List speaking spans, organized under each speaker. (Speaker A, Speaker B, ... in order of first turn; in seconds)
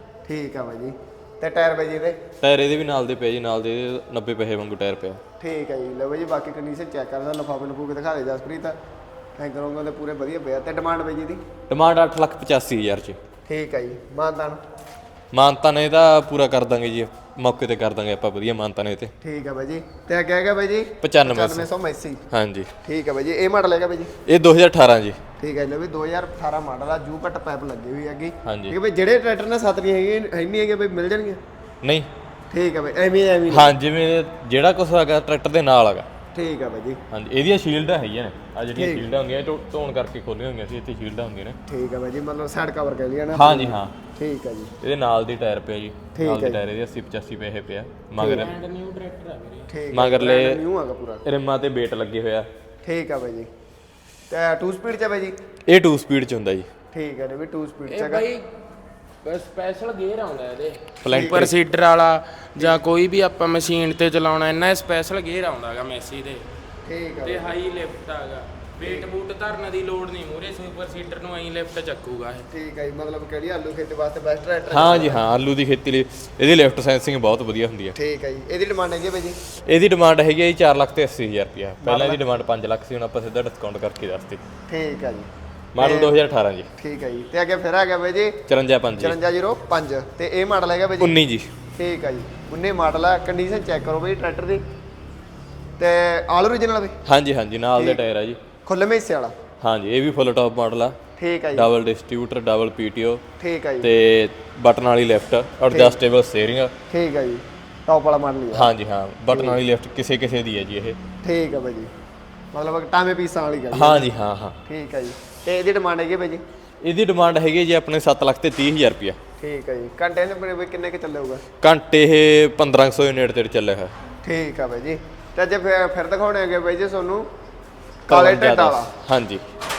Speaker A: 0.3-2.2, 5.4-8.8, 9.4-11.4, 13.5-14.6, 19.2-22.2, 22.8-24.1, 25.4-31.4, 32.5-33.8, 36.3-37.0, 38.8-39.1, 41.7-44.7, 46.1-46.6, 49.7-51.2, 52.8-53.5, 54.3-55.4, 56.9-58.3, 61.1-61.5, 66.8-67.5, 72.5-75.2, 78.0-79.4, 81.8-82.2, 84.7-86.2, 86.8-88.4, 89.0-91.2, 91.8-94.6, 95.8-97.0, 97.8-98.0, 98.7-99.3, 101.2-101.7, 103.4-103.9, 105.7-106.0, 106.9-108.7, 109.3-109.6, 111.2-111.9, 112.5-114.1, 114.7-116.4, 119.4-121.4, 124.2-127.3, 128.1-128.9
Speaker B: 2.4-5.2, 11.7-13.2, 15.3-19.1, 21.0-21.7, 22.3-22.7, 24.3-25.2, 28.4-28.8, 31.8-32.1, 33.5-36.1, 37.1-41.6, 43.4-43.9, 44.8-48.5, 49.9-50.6, 51.2-52.5, 55.7-56.7, 61.0-61.5, 74.7-78.0, 79.7-84.4, 85.7-86.7, 88.5-89.2, 91.0-91.5, 97.1-98.4, 99.6-101.0, 101.5-103.2, 103.8-106.7, 108.5-111.0, 113.7-114.6, 116.8-119.2, 121.6-123.9, 128.1-129.4
Speaker C: 48.2-49.7, 57.9-58.5, 59.2-66.5, 67.2-72.5